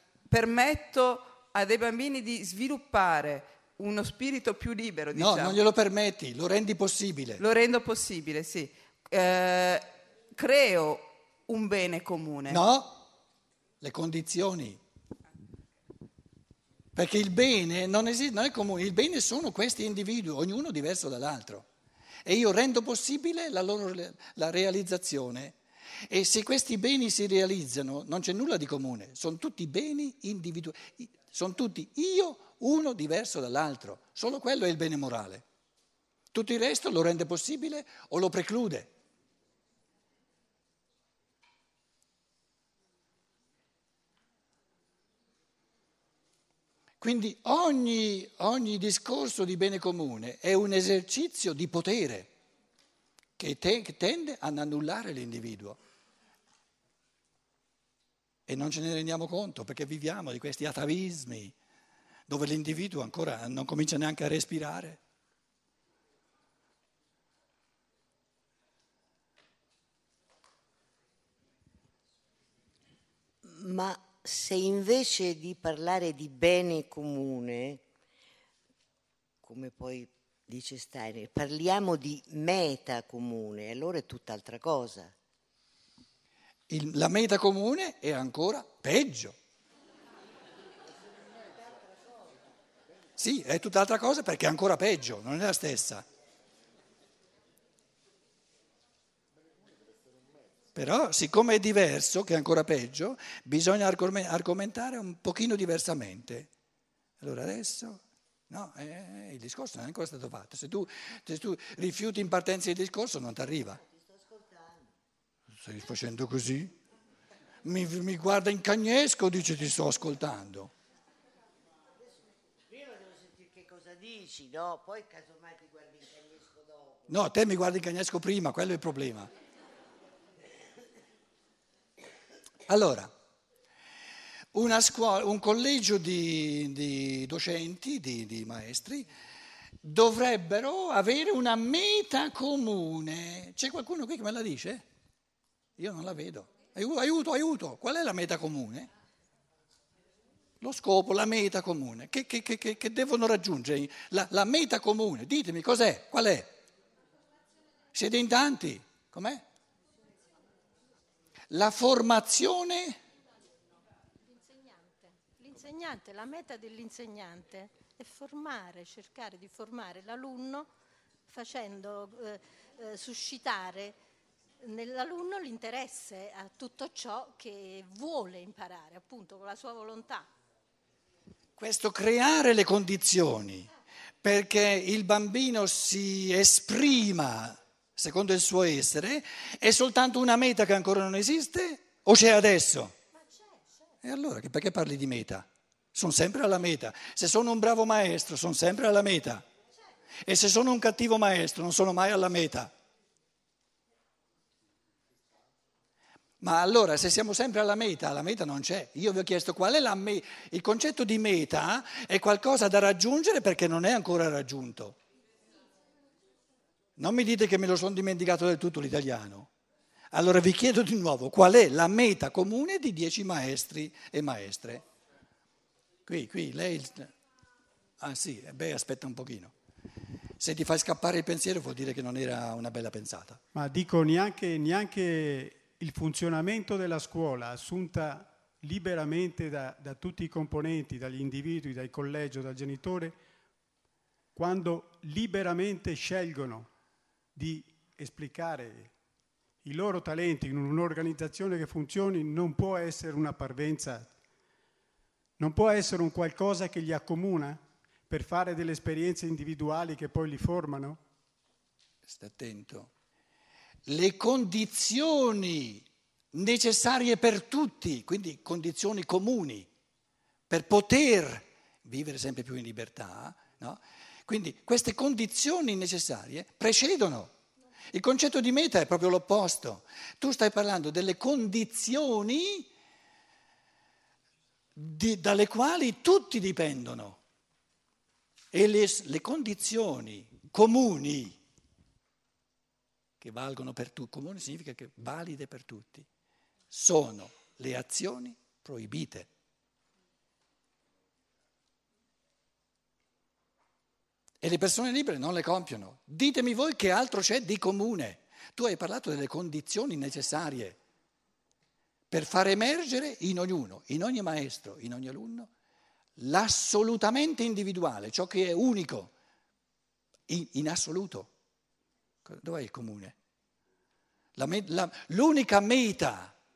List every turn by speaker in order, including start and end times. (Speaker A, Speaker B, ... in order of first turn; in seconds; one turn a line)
Speaker A: 0.3-5.6
Speaker B: 5.2-7.4
Speaker A: 7.4-12.6
Speaker B: 12.5-13.1
Speaker B: 13.8-14.8
Speaker B: 16.9-21.7
Speaker B: 22.2-25.6
Speaker B: 26.1-35.5
Speaker B: 36.3-38.9
Speaker B: 47.0-52.3
Speaker B: 53.4-55.8
Speaker B: 58.5-61.5
Speaker B: 62.3-65.0
Speaker C: 73.4-77.8
Speaker C: 79.4-85.2
Speaker B: 86.7-89.4
Speaker B: 93.2-96.0
Speaker B: 100.8-106.5
Speaker B: 107.2-113.8
Speaker C: 114.0-114.8
Speaker B: 115.6-116.7
Speaker B: 117.6-120.7
Speaker C: 122.7-127.0
Speaker B: 127.1-129.3
Speaker B: 132.7-133.1
Speaker B: 134.5-139.1
Speaker B: 139.8-144.8
Speaker B: 145.8-148.9
Speaker B: 150.6-156.5
Speaker B: 157.9-159.4
Speaker B: 161.5-163.0
Speaker D: 164.4-170.7
Speaker D: 171.3-173.9
Speaker D: 174.6-180.3
Speaker B: 181.6-183.7
Speaker B: 184.2-193.0
Speaker D: 193.2-193.6
Speaker B: 194.0-199.4
Speaker B: 200.3-202.7
Speaker B: 206.4-215.0
Speaker B: 217.0-219.5
Speaker B: 220.1-224.8
Speaker B: 226.1-227.1
Speaker B: 228.0-229.5
Speaker B: 230.4-233.4
Speaker E: 233.5-243.2
Speaker E: 244.3-246.7
Speaker E: 247.3-248.9
Speaker E: 249.6-254.1
Speaker E: 255.4-261.0
Speaker B: 262.1-262.9
Speaker B: 263.9-269.7
Speaker B: 270.5-277.3
Speaker B: 277.9-282.7
Speaker B: 284.8-287.2
Speaker B: 288.5-291.4
Speaker B: 293.2-296.1
Speaker B: 296.7-299.3
Speaker B: 304.4-310.8
Speaker B: 312.1-315.5
Speaker B: 316.2-319.1
Speaker B: 320.3-321.3
Speaker B: 322.2-323.1
Speaker B: 324.4-326.4